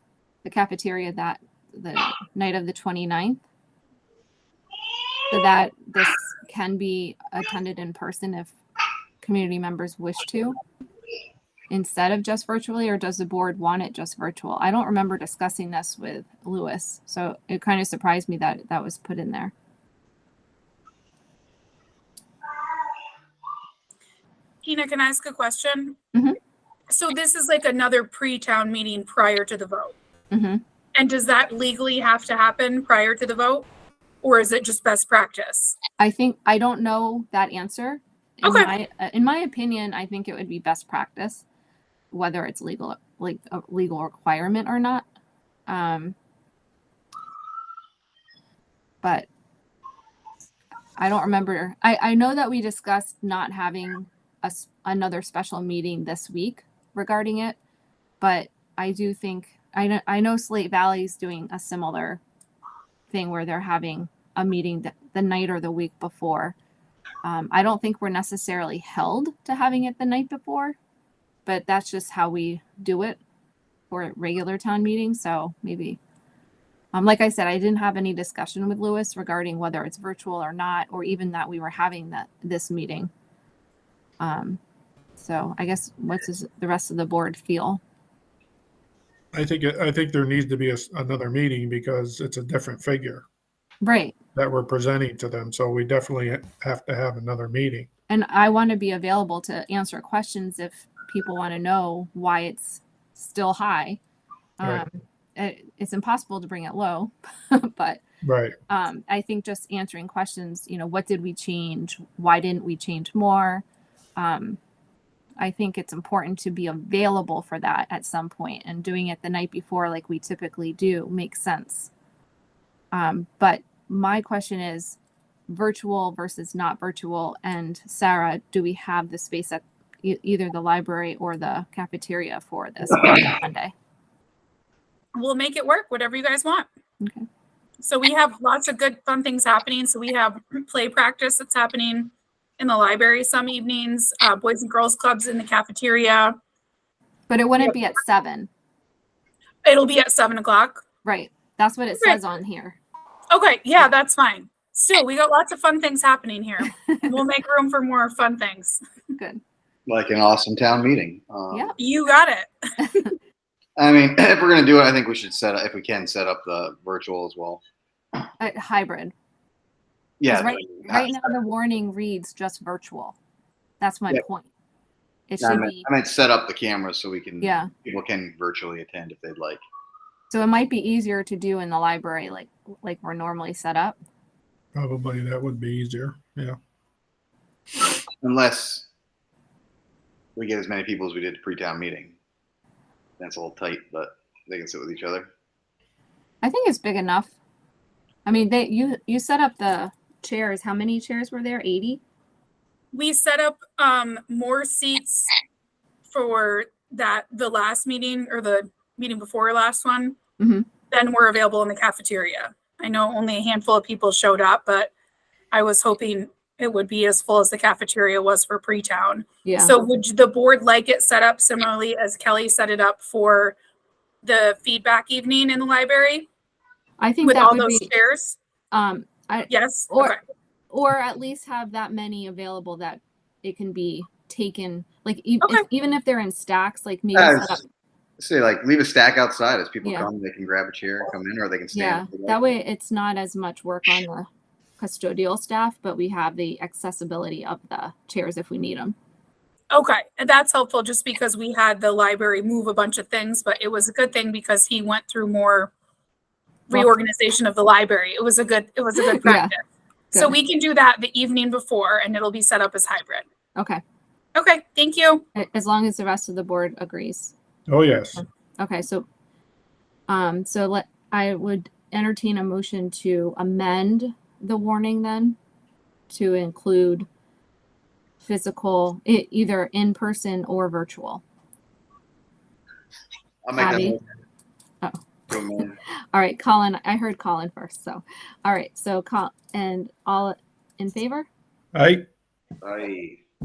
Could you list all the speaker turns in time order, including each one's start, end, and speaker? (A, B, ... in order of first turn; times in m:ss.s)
0:00.4-0:03.4 A
0:05.3-0:08.5 A
0:09.2-0:10.6 A
0:11.7-0:19.5 A
0:24.6-0:26.0 B
0:26.9-0:29.9 B
0:30.3-0:30.6 A
0:30.9-0:33.6 B
0:34.2-0:35.8 B
0:36.0-0:41.4 A
0:38.4-0:38.7 B
0:42.1-0:45.0 A
0:45.7-0:46.1 A
0:49.0-0:49.3 A
0:51.0-0:57.6 A
0:58.2-1:02.2 A
1:03.1-1:06.6 A
1:07.2-1:10.8 A
1:11.4-1:13.2 A
1:13.9-1:16.0 A
1:16.9-1:23.1 A
1:24.2-1:24.6 A
1:25.2-1:27.8 A
1:29.3-1:33.2 C
1:33.8-1:34.2 A
1:34.3-1:37.9 C
1:38.1-1:44.0 A
1:44.6-1:48.0 A
1:48.2-1:48.5 C
1:48.7-1:53.6 A
1:54.2-1:54.6 A
1:55.4-2:01.9 A
2:02.9-2:13.7 A
2:15.2-2:16.7 B
2:17.0-2:17.2 A
2:17.8-2:26.4 B
2:27.3-2:28.5 A
2:29.6-2:30.8 B
2:31.0-2:32.8 A
2:33.3-2:38.8 B
2:36.8-2:37.1 A
2:39.1-2:39.4 A
2:39.9-2:41.7 D
2:41.8-2:42.5 B
2:42.8-2:43.1 A
2:43.8-2:47.6 D
2:48.4-2:49.1 A
2:50.2-2:51.3 D
2:50.3-2:53.2 A
2:53.8-2:54.5 A
2:55.3-2:55.9 A
2:55.4-2:59.6 D
2:57.4-2:57.7 A
3:00.3-3:04.0 A
3:04.7-3:06.6 C
3:08.2-3:08.8 D
3:10.4-3:12.1 D
3:13.2-3:15.3 D
3:16.4-3:17.3 A
3:18.2-3:22.0 A
3:22.9-3:25.3 B
3:26.1-3:30.2 B
3:30.4-3:30.7 A
3:30.9-3:34.9 B
3:35.5-3:43.6 B
3:39.4-3:39.8 A
3:44.2-3:46.3 B
3:47.0-3:47.9 A
3:47.2-3:48.4 B
3:48.7-3:50.2 A
3:49.5-3:50.2 B
3:50.7-3:57.6 A
3:57.1-3:57.6 D
3:58.2-4:02.4 D
3:59.8-4:00.1 A
4:01.7-4:04.3 A
4:04.8-4:08.9 A
4:09.7-4:15.7 B
4:16.7-4:19.6 B
4:19.1-4:19.5 A
4:20.1-4:23.2 B
4:23.6-4:23.8 A
4:24.3-4:25.2 B
4:25.3-4:27.3 A
4:27.7-4:28.2 C
4:28.2-4:29.0 A
4:30.1-4:35.4 A
4:36.1-4:37.1 A
4:38.2-4:41.2 A
4:43.4-4:44.0 D
4:43.6-4:44.0 A
4:45.3-4:45.8 D
4:46.1-4:51.3 A
4:51.7-4:52.0 C
4:52.6-4:53.2 D